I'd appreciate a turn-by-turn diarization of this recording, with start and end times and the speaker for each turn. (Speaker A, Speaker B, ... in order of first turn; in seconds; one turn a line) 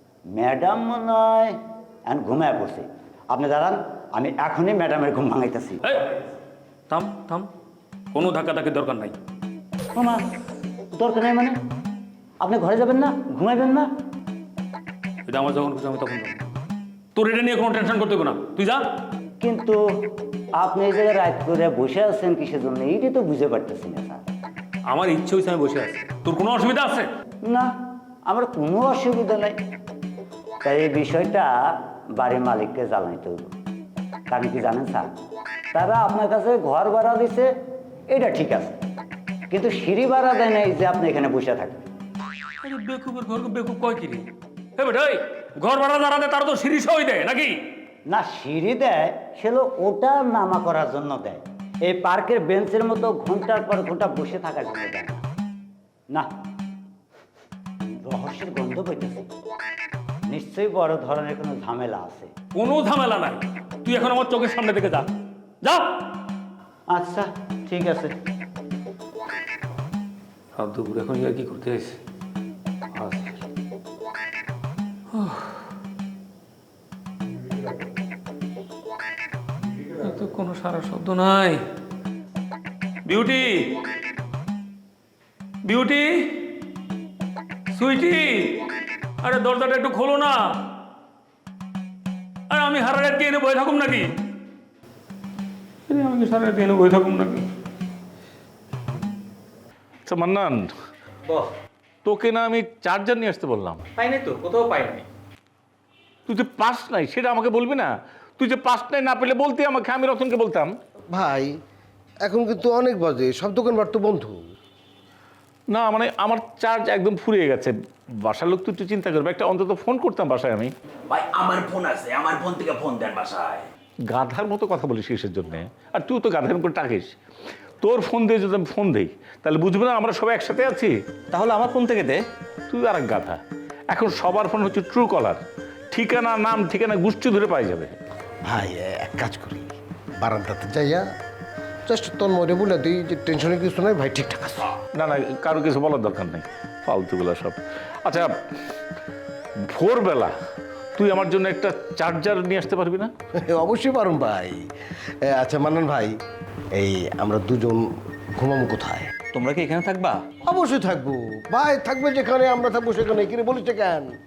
Speaker A: 0.3-5.8
Speaker B: 6.9-7.5
Speaker B: 8.1-9.2
Speaker A: 9.9-10.2
Speaker A: 10.9-11.6
Speaker A: 12.4-13.9
Speaker B: 15.3-16.5
Speaker B: 17.1-18.8
Speaker A: 19.4-24.3
Speaker B: 24.9-27.1
Speaker A: 27.4-27.7
Speaker A: 28.3-29.6
Speaker A: 30.6-33.5
Speaker A: 34.3-35.1
Speaker A: 35.7-37.5
Speaker A: 38.1-38.8
Speaker A: 39.5-41.9
Speaker B: 42.6-47.6
Speaker A: 48.1-55.2
Speaker A: 58.0-59.3
Speaker A: 60.3-62.3
Speaker B: 62.5-65.1
Speaker B: 65.6-66.0
Speaker A: 66.9-68.1
Speaker B: 70.6-72.0
Speaker B: 73.0-73.4
Speaker B: 75.1-75.5
Speaker B: 80.0-81.6
Speaker B: 83.1-83.7
Speaker B: 85.6-86.5
Speaker B: 87.7-88.6
Speaker B: 89.2-90.6
Speaker B: 92.5-94.2
Speaker B: 95.9-97.5
Speaker C: 100.1-100.7
Speaker C: 102.0-103.9
Speaker C: 106.3-110.7
Speaker D: 111.1-111.5
Speaker D: 112.2-114.4
Speaker C: 115.7-117.7
Speaker C: 118.3-120.7
Speaker E: 121.1-123.6
Speaker C: 124.1-127.2
Speaker C: 127.8-130.9
Speaker E: 131.3-132.2
Speaker C: 132.7-133.4
Speaker C: 133.9-137.9
Speaker D: 138.4-141.1
Speaker D: 141.9-144.7
Speaker C: 145.0-148.3
Speaker C: 149.8-150.3
Speaker C: 151.0-153.1
Speaker D: 153.5-154.6
Speaker D: 155.3-156.1
Speaker D: 156.8-157.8
Speaker D: 158.4-159.1
Speaker E: 159.3-160.2
Speaker D: 160.4-164.1